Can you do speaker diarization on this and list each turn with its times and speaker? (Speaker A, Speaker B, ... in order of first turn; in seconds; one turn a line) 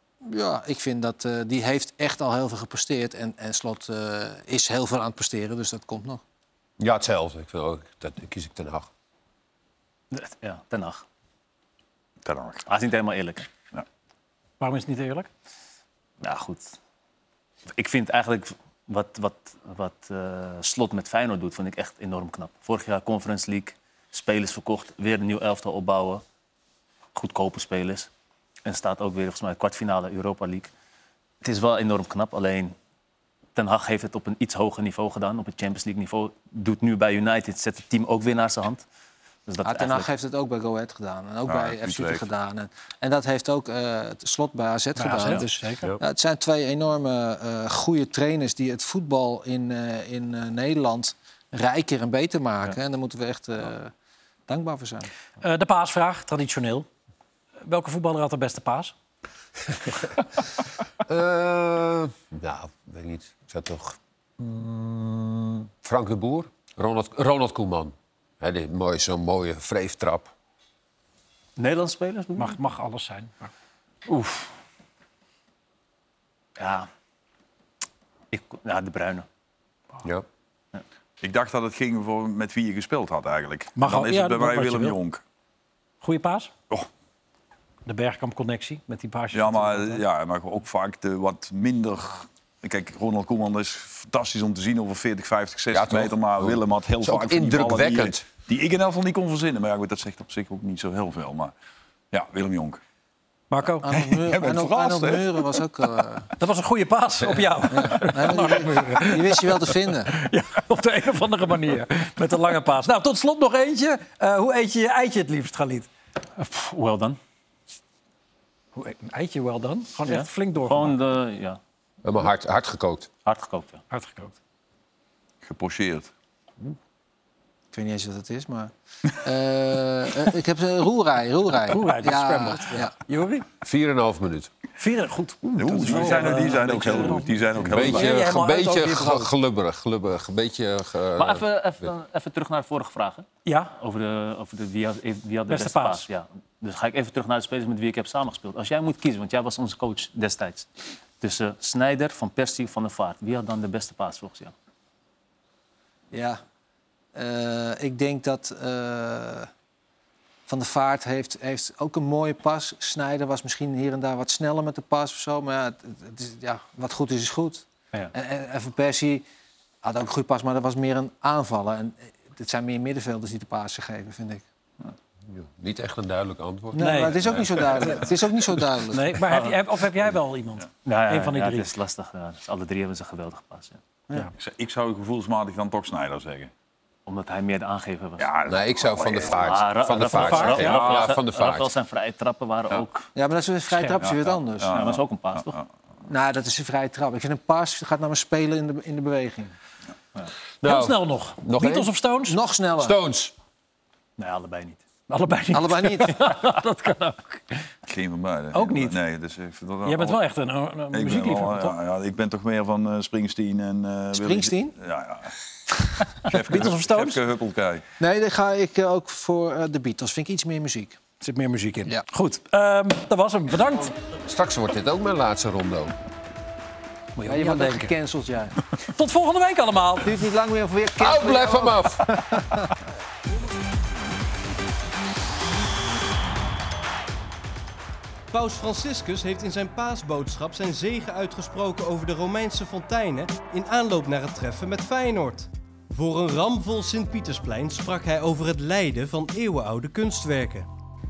Speaker A: 0.2-6.2
Speaker B: 6.8-8.9
Speaker C: 10.1-11.0
Speaker D: 12.2-12.6
Speaker C: 12.7-13.5
Speaker E: 14.6-15.3
Speaker C: 16.2-16.7
Speaker C: 17.8-26.2
Speaker C: 27.1-28.1
Speaker C: 28.6-30.7
Speaker C: 31.4-32.7
Speaker C: 33.5-38.8
Speaker C: 39.5-40.1
Speaker A: 39.6-53.9
Speaker D: 41.5-42.3
Speaker E: 45.0-45.8
Speaker A: 54.5-55.1
Speaker E: 55.4-56.9
Speaker E: 57.6-58.9
Speaker B: 61.0-70.3
Speaker C: 71.6-72.6
Speaker E: 72.4-73.5
Speaker C: 74.1-74.5
Speaker C: 76.6-76.9
Speaker C: 78.3-79.2
Speaker D: 81.2-85.2
Speaker E: 83.8-85.0
Speaker E: 86.0-86.5
Speaker E: 87.8-90.0
Speaker D: 89.3-101.5
Speaker B: 95.7-98.2
Speaker D: 102.1-102.8
Speaker E: 103.5-103.8
Speaker A: 103.8-106.3
Speaker D: 103.9-105.6
Speaker E: 106.4-109.5
Speaker A: 107.7-110.1
Speaker E: 110.1-115.9
Speaker C: 116.4-117.2
Speaker E: 118.8-120.9
Speaker C: 120.1-121.6
Speaker B: 122.0-123.1
Speaker C: 123.2-123.8
Speaker E: 123.9-124.3
Speaker D: 125.4-126.1
Speaker A: 127.7-128.7
Speaker A: 129.2-132.9
Speaker E: 131.7-133.4
Speaker B: 133.6-134.5
Speaker E: 134.8-139.3
Speaker D: 135.6-138.1
Speaker B: 137.7-141.4
Speaker C: 141.2-143.2
Speaker E: 143.4-143.7
Speaker C: 143.8-150.7
Speaker E: 145.5-146.0
Speaker C: 151.2-154.5
Speaker A: 156.1-156.4
Speaker A: 157.1-159.5
Speaker A: 160.5-169.2
Speaker A: 169.8-174.4
Speaker B: 175.3-177.5
Speaker A: 176.7-179.0
Speaker E: 176.8-177.2
Speaker D: 177.2-177.9
Speaker E: 178.9-181.7
Speaker C: 179.3-179.6
Speaker C: 180.8-183.8
Speaker D: 184.1-186.5
Speaker C: 187.1-188.3
Speaker D: 188.2-189.6
Speaker B: 188.5-191.7
Speaker C: 189.4-193.1
Speaker E: 190.2-190.7
Speaker A: 193.1-194.8
Speaker D: 194.0-195.7
Speaker C: 194.7-195.6
Speaker A: 196.0-199.5
Speaker B: 200.6-201.9
Speaker E: 200.6-202.4
Speaker A: 202.3-203.0
Speaker B: 202.8-203.3
Speaker C: 204.2-204.8
Speaker E: 205.1-207.6
Speaker A: 205.5-206.3
Speaker D: 207.9-210.2
Speaker E: 208.5-208.9
Speaker E: 209.8-211.8
Speaker D: 210.9-215.3
Speaker A: 214.1-214.7
Speaker D: 216.0-217.8
Speaker E: 216.3-217.2
Speaker A: 218.0-221.0
Speaker E: 221.2-223.9
Speaker B: 224.2-225.9
Speaker E: 227.2-227.9
Speaker A: 227.2-228.6
Speaker E: 228.9-230.1
Speaker A: 230.0-232.7
Speaker B: 231.0-232.1
Speaker F: 238.3-250.7